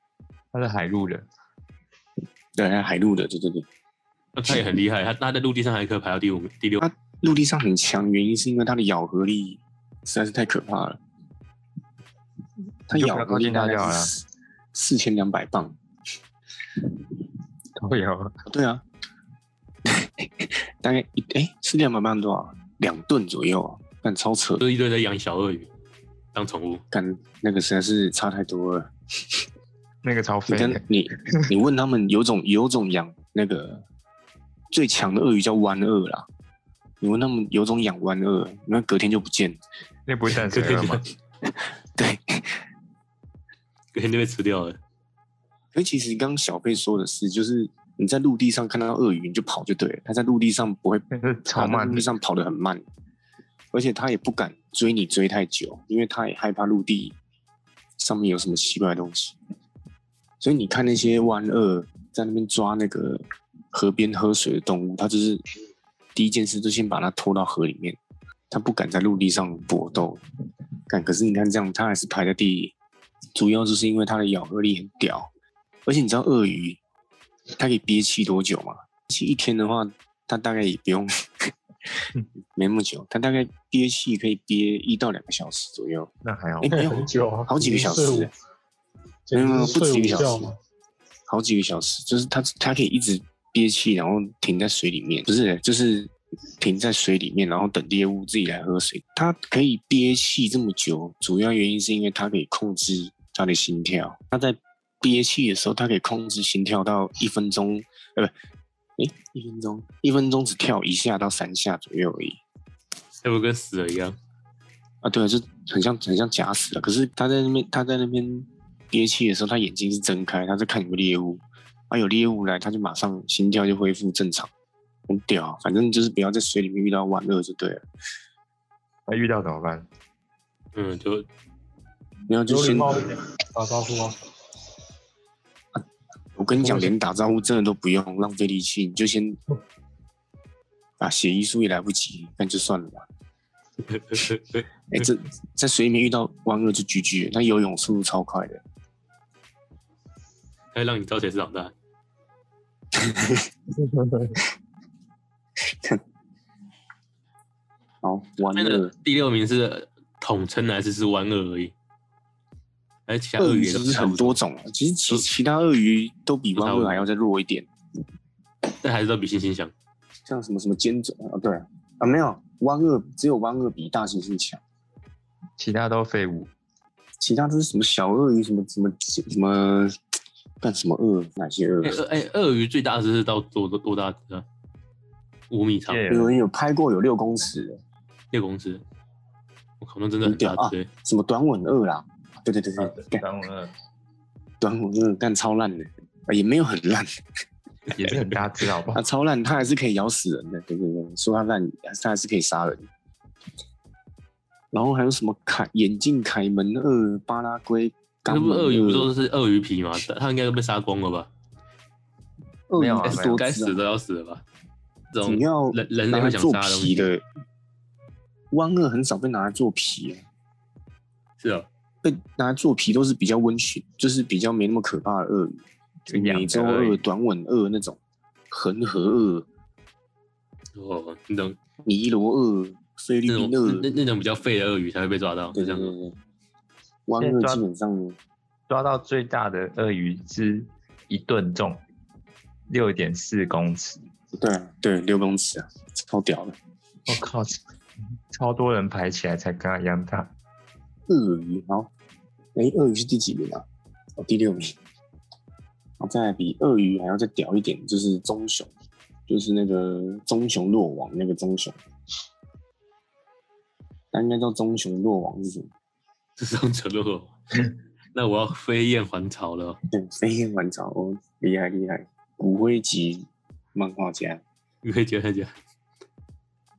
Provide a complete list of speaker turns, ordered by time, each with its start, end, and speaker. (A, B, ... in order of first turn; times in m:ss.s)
0:00.5-0:01.2 A
0:02.5-0:03.7 B
0:04.3-0:06.8 C
0:06.8-0:11.0 B
0:12.9-0:15.8 B
0:12.9-0:14.1 A
0:17.8-0:18.4 A
0:18.4-0:18.8 B
0:19.8-0:24.6 B
0:24.6-0:25.7 C
0:26.3-0:26.8 C
0:26.9-0:28.9 B
0:30.0-0:31.4 A
0:30.5-0:33.8 B
0:34.7-0:36.3 B
0:37.0-0:39.6 B
0:40.1-0:41.0 A
0:40.4-0:41.0 C
0:41.4-0:42.6 B
0:43.9-0:44.8 C
0:45.7-0:52.8 B
0:51.1-0:52.1 A
0:53.7-0:57.2 B
0:58.0-0:59.4 B
1:00.4-1:05.4 B
1:06.1-1:08.0 B
1:08.5-1:10.2 B
1:10.9-1:12.7 B
1:13.3-1:15.3 B
1:15.8-1:16.8 B
1:17.6-1:21.5 B
1:22.6-1:28.3 B
1:26.2-1:26.8 A
1:26.7-1:28.3 D
1:29.3-1:30.6 D
1:29.3-1:30.5 B
1:31.3-1:48.3 B
1:49.0-1:52.4 B
1:53.2-1:54.2 C
1:55.0-2:04.5 B
2:05.1-2:07.8 B
2:09.1-2:09.9 A
2:10.7-2:11.3 C
2:12.3-2:12.9 B
2:12.5-2:14.2 D
2:16.4-2:19.4 B
2:16.6-2:16.9 D
2:21.0-2:23.0 B
2:23.9-2:24.6 C
2:24.9-2:28.6 B
2:30.7-2:31.7 C
2:32.9-2:33.5 B
2:33.8-2:34.4 A
2:35.7-2:36.0 B
2:38.0-2:38.9 B
2:38.5-2:41.7 C
2:43.1-2:44.4 C
2:43.4-2:47.7 B
2:46.5-2:47.0 C
2:48.8-2:49.7 C
2:50.3-2:54.6 B
2:55.6-2:56.5 A
2:57.2-3:00.0 B
3:00.6-3:02.0 B
3:01.8-3:04.4 C
3:05.5-3:06.0 C
3:05.9-3:06.4 A
3:06.1-3:07.8 B
3:08.3-3:08.8 C
3:09.8-3:10.9 C
3:10.2-3:13.2 B
3:12.8-3:13.7 A
3:14.6-3:17.1 B
3:17.9-3:19.0 A
3:18.0-3:18.3 C
3:18.9-3:22.9 B
3:24.7-3:29.1 B
3:28.3-3:31.3 C
3:32.7-3:33.8 B
3:32.8-3:33.4 A
3:33.0-3:34.4 C
3:35.1-3:37.1 C
3:35.2-3:37.2 B
3:38.5-3:40.2 B
3:41.4-3:41.7 C
3:42.0-3:48.0 B
3:46.1-3:47.0 A
3:48.5-3:49.4 B
3:50.8-3:51.6 C
3:51.8-3:53.9 B
3:53.3-3:55.9 C
3:55.5-3:56.2 B
3:57.1-3:58.2 B
3:57.2-3:57.6 A
3:58.7-4:01.8 A
4:02.7-4:04.0 A
4:04.3-4:06.6 B
4:07.1-4:07.6 A
4:08.3-4:10.3 A
4:11.1-4:11.9 B
4:12.5-4:13.6 B
4:14.2-4:14.7 B
4:16.0-4:18.7 B
4:19.3-4:21.8 B
4:24.1-4:25.7 B
4:26.4-4:27.3 C
4:28.1-4:29.8 C
4:29.9-4:34.4 B
4:34.8-4:35.5 C